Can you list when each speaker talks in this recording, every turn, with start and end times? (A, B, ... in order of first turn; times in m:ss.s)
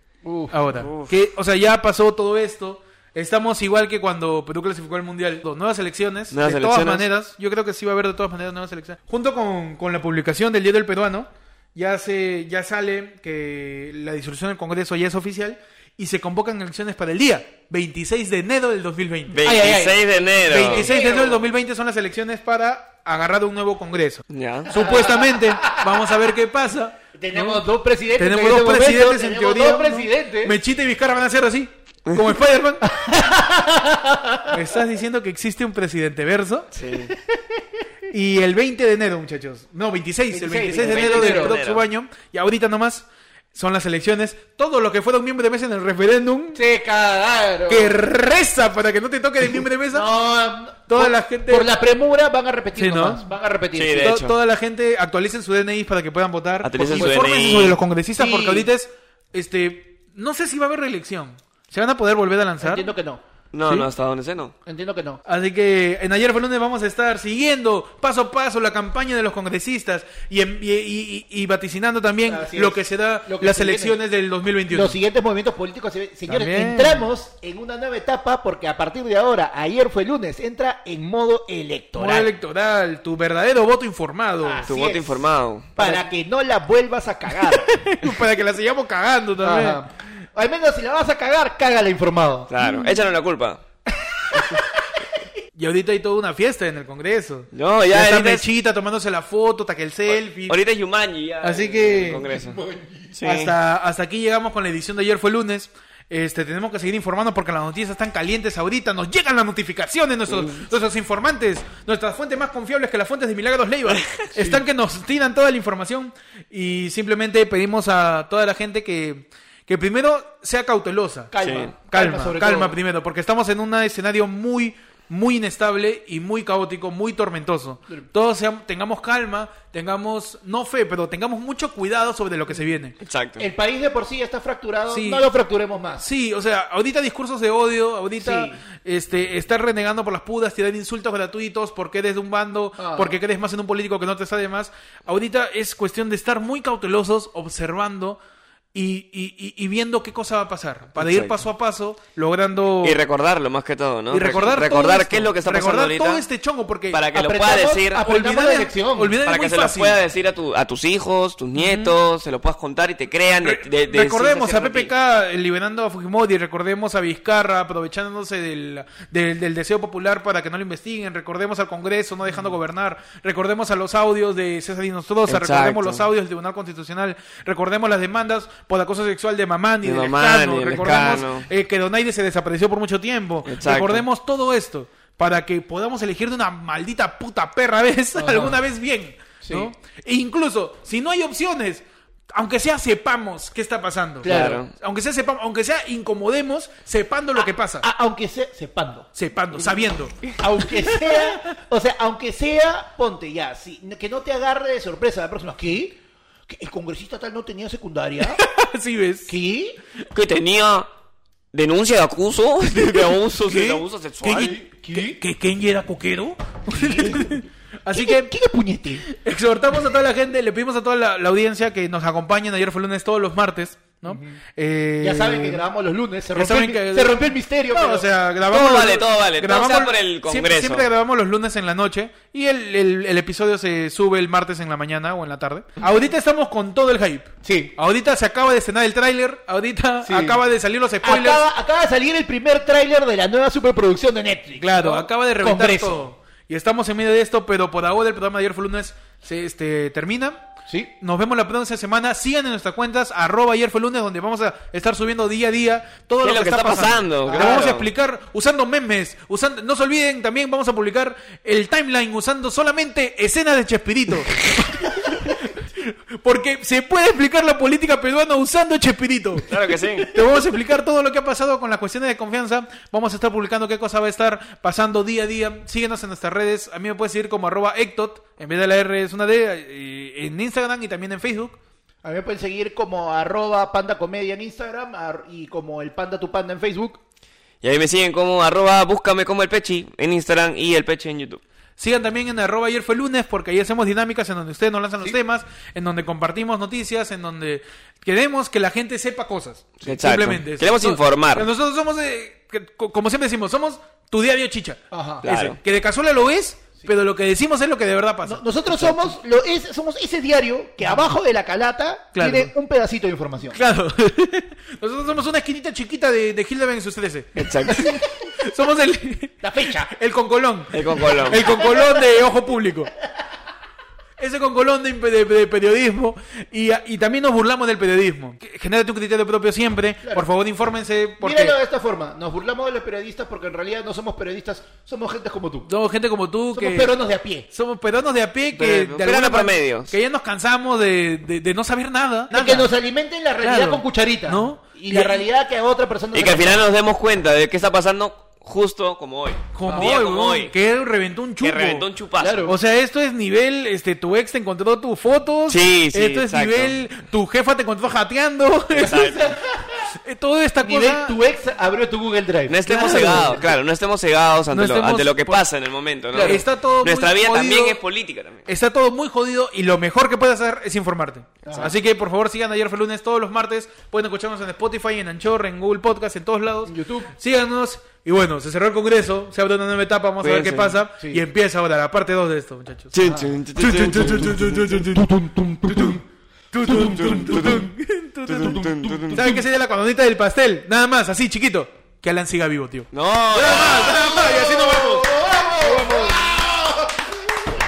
0:00.2-0:00.5 A
0:00.5-0:19.4 B
0:00.8-0:01.1 C
0:06.3-0:07.0 C
0:19.3-0:20.9 C
0:19.4-0:21.4 A
0:20.5-0:27.6 B
0:24.3-0:24.7 C
0:24.7-0:26.0 A
0:27.1-0:30.6 A
0:28.2-0:32.9 B
0:32.8-0:34.5 A
0:34.5-0:36.7 B
0:36.7-0:37.1 C
0:37.1-0:37.4 A
0:38.1-0:46.6 B
0:40.3-0:41.6 A
0:40.8-0:41.8 C
0:46.5-0:48.0 A
0:47.7-0:50.1 B
0:49.9-0:54.1 A
0:50.9-0:51.7 B
0:52.8-0:53.2 B
0:53.7-0:54.3 C
0:54.0-1:02.9 B
0:56.6-0:57.8 C
0:56.9-0:57.2 A
0:58.2-0:58.7 A
1:02.6-1:03.2 A
1:03.5-1:04.5 C
1:04.6-1:05.2 A
1:05.2-1:15.0 B
1:12.3-1:14.0 A
1:14.7-1:22.3 A
1:16.3-1:17.0 B
1:22.0-1:24.6 B
1:24.4-1:25.2 A
1:24.6-1:26.0 C
1:25.8-1:28.0 A
1:27.8-1:29.8 B
1:29.4-1:32.6 A
1:32.5-1:33.6 C
1:32.6-1:32.9 B
1:33.9-1:35.0 A
1:35.6-1:40.6 B
1:37.5-1:38.4 C
1:40.5-1:42.6 C
1:41.4-1:42.2 B
1:42.1-1:43.1 A
1:43.1-1:43.5 C
1:43.2-2:01.3 B
1:50.3-1:50.6 C
1:53.9-1:54.2 C
2:01.3-2:02.8 A
2:01.4-2:01.7 C
2:01.9-2:12.9 B
2:13.0-2:13.5 C
2:13.4-2:16.0 A
2:14.9-2:15.3 B
2:16.0-2:28.2 B
2:18.2-2:18.6 A
2:22.8-2:23.2 A
2:28.7-2:33.0 B
2:31.0-2:31.4 C
2:32.8-2:36.2 C
2:34.1-2:37.0 B
2:36.9-2:38.1 C
2:37.1-2:39.2 A
2:38.0-2:40.0 B
2:39.2-2:44.9 C
2:41.6-2:41.9 B
2:43.4-3:17.9 B
2:55.3-2:56.1 C
2:59.8-3:01.5 C
3:03.5-3:04.0 C
3:08.2-3:08.6 A
3:09.4-3:09.7 A
3:14.2-3:14.6 A
3:14.2-3:14.7 C
3:17.4-3:19.1 A
3:19.1-3:21.3 B
3:20.4-3:28.4 A
3:28.3-3:29.3 B
3:29.3-3:29.8 A
3:30.1-3:30.9 C
3:31.5-3:34.6 C
3:33.3-3:38.3 B
3:34.2-3:35.2 A
3:36.7-3:37.3 A
3:37.9-3:39.0 A
3:39.0-3:45.6 B
3:44.1-3:44.4 A
3:45.0-3:48.1 A
3:46.3-4:01.4 B
3:48.5-3:50.9 C
3:57.4-3:57.7 A
4:00.0-4:00.4 A
4:01.0-4:06.1 A
4:04.6-4:10.5 B
4:11.0-4:41.6 B
4:16.2-4:17.9 C
4:17.3-4:17.7 A
4:29.5-4:30.1 C
4:42.0-4:47.0 A
4:47.6-4:51.4 C
4:51.8-5:08.9 B
4:59.8-5:01.5 C
5:04.9-5:05.5 A
5:05.2-5:05.6 C
5:08.2-5:13.6 A
5:12.1-5:12.5 B
5:13.5-5:22.9 B
5:17.4-5:18.0 C
5:19.4-5:19.9 A
5:20.7-5:21.4 C
5:21.3-5:22.2 A
5:24.2-5:31.5 B
5:31.2-5:35.7 A
5:35.7-5:36.9 B
5:36.5-5:37.5 A
5:37.5-5:42.7 B
5:38.5-5:39.9 C
5:42.3-5:46.6 A
5:43.4-5:45.2 B
5:46.1-5:50.5 C
5:49.5-5:51.9 B
5:49.7-5:49.9 A
5:51.4-5:52.5 C
5:52.2-5:52.5 A
5:52.4-5:59.1 B
5:55.5-5:56.8 C
5:58.7-5:59.4 C
5:58.8-5:59.8 A
6:00.0-6:01.2 B
6:00.6-6:03.4 A
6:02.5-6:08.5 C
6:02.7-6:03.4 B
6:04.5-6:05.4 B
6:06.1-6:06.4 A
6:06.2-6:07.8 B
6:08.5-6:25.0 B
6:11.4-6:11.7 A
6:16.7-6:17.1 A
6:20.2-6:20.8 C
6:22.9-6:24.9 C
6:23.0-6:23.3 A
6:24.8-6:26.0 A
6:25.7-6:26.0 B
6:26.5-6:35.1 B
6:26.6-6:27.7 A
6:27.1-6:27.6 C
6:28.3-6:29.3 C
6:28.3-6:29.4 A
6:32.9-6:34.2 C
6:33.7-6:37.1 A
6:35.6-6:36.1 B